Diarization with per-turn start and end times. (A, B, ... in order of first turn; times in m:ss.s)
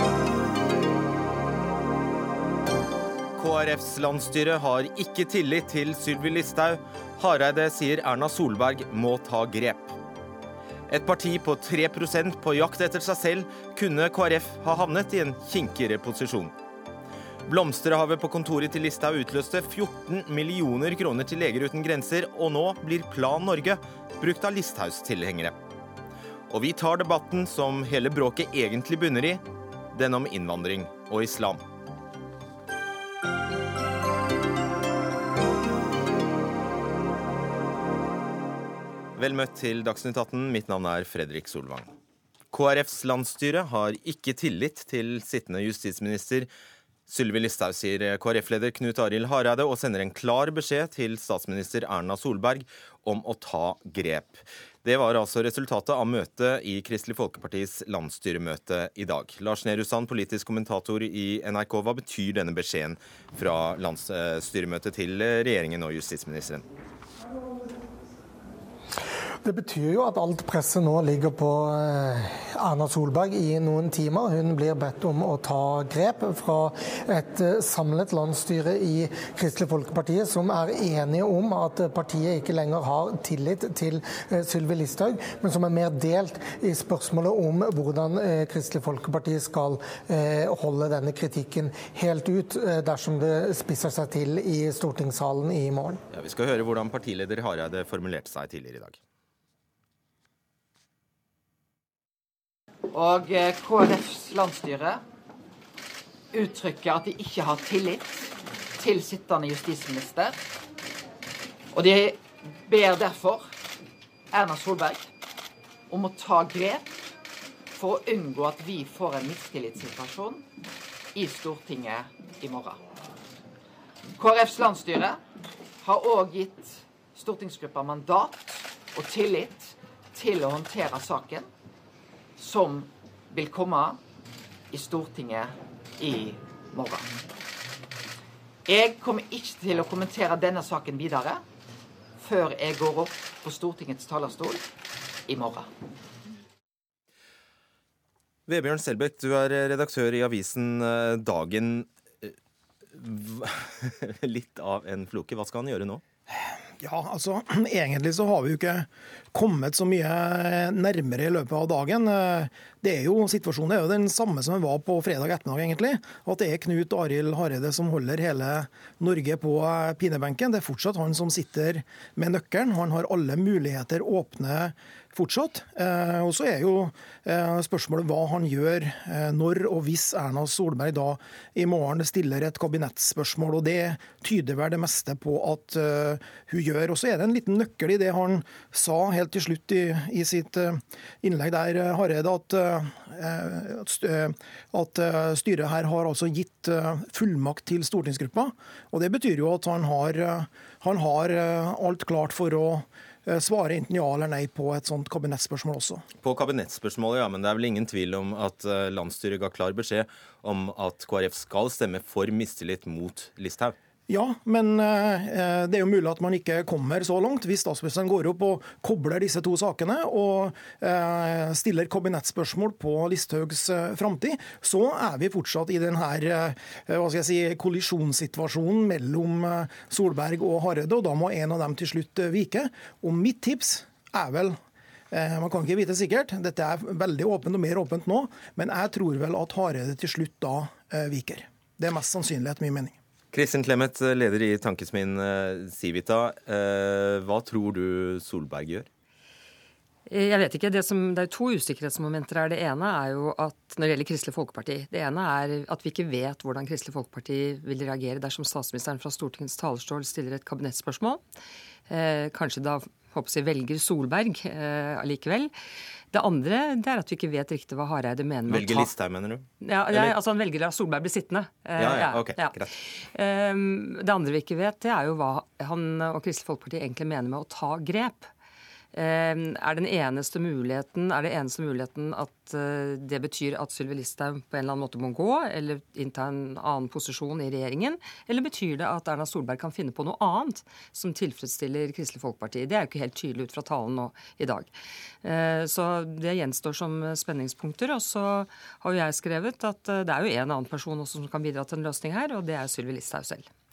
0:03.4-0:10.0 A
0:10.9-0:16.5 A
0:17.4-0:25.6 A
0:26.5-0:29.4 A
0:29.9-0:31.6 A
0:39.2-0:41.9 A
0:42.5-0:46.5 A
0:47.1-1:06.6 A
1:09.4-1:36.0 B
1:36.1-1:39.0 A
1:42.9-1:45.0 C
1:46.3-1:50.4 C
1:51.7-1:53.5 C
1:54.3-1:55.1 C
1:55.9-1:57.0 C
1:57.7-2:00.5 C
2:01.1-2:02.8 C
2:04.1-2:05.2 C
2:05.8-2:11.5 C
2:12.4-2:14.0 C
2:14.7-2:17.1 C
2:18.6-2:21.4 C
2:22.2-2:24.7 C
2:25.3-2:25.7 C
2:28.5-2:32.3 A
2:32.9-2:36.0 A
2:36.8-3:26.0 D
3:26.2-3:33.7 A
3:34.1-3:54.6 D
3:55.1-4:03.0 D
4:03.3-4:08.9 A
4:10.1-4:21.2 E
4:21.9-4:25.5 E
4:26.1-4:28.9 E
4:28.5-4:30.1 A
4:29.6-4:38.3 E
4:31.8-4:32.7 A
4:38.9-4:54.7 E
4:55.2-5:03.5 E